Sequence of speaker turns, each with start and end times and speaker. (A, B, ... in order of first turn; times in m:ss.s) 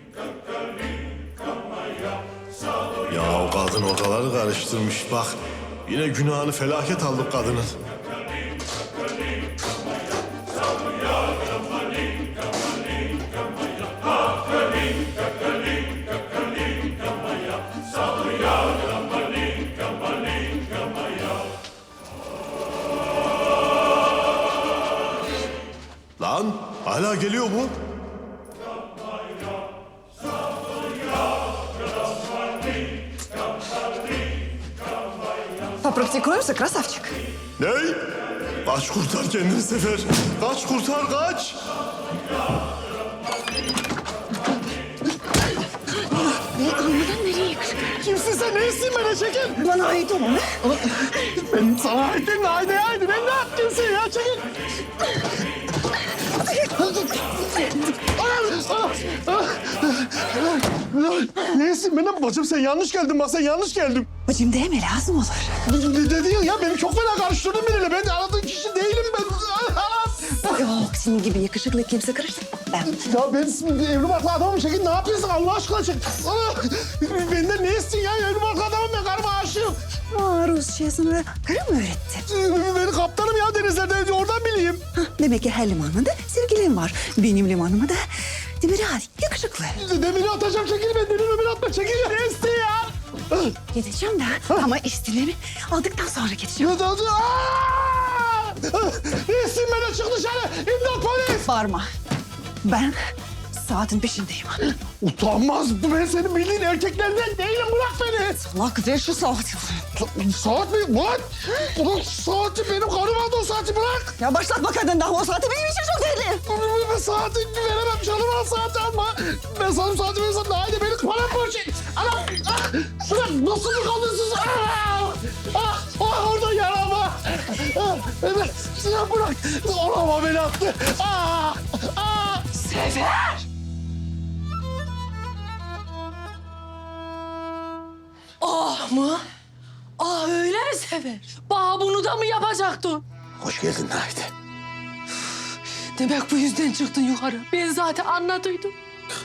0:03.1-0:07.8 A
0:26.2-0:27.8 A
0:35.8-0:37.2 B
0:37.6-0:38.0 A
0:38.6-0:41.6 A
0:46.0-0:48.0 B
0:48.0-0:49.7 A
0:49.6-0:50.6 B
0:50.6-0:54.5 A
0:56.6-1:04.1 A
1:04.2-1:05.6 B
1:05.6-1:10.7 A
1:10.5-1:12.9 B
1:12.8-1:19.8 A
1:20.1-1:22.2 B
1:22.2-1:24.8 A
1:24.9-1:28.0 B
1:28.6-1:29.8 B
1:29.7-1:33.5 A
1:33.7-1:36.8 B
1:36.6-1:41.5 A
1:41.4-1:41.9 B
1:42.6-1:44.6 B
1:44.7-1:48.4 A
1:48.4-1:49.9 B
1:49.9-1:54.1 A
1:54.2-1:56.4 B
1:56.4-2:12.4 A
2:12.5-2:13.4 C
2:18.4-2:19.2 C
2:20.0-2:23.0 C
2:23.4-2:24.3 A
2:25.9-2:28.7 C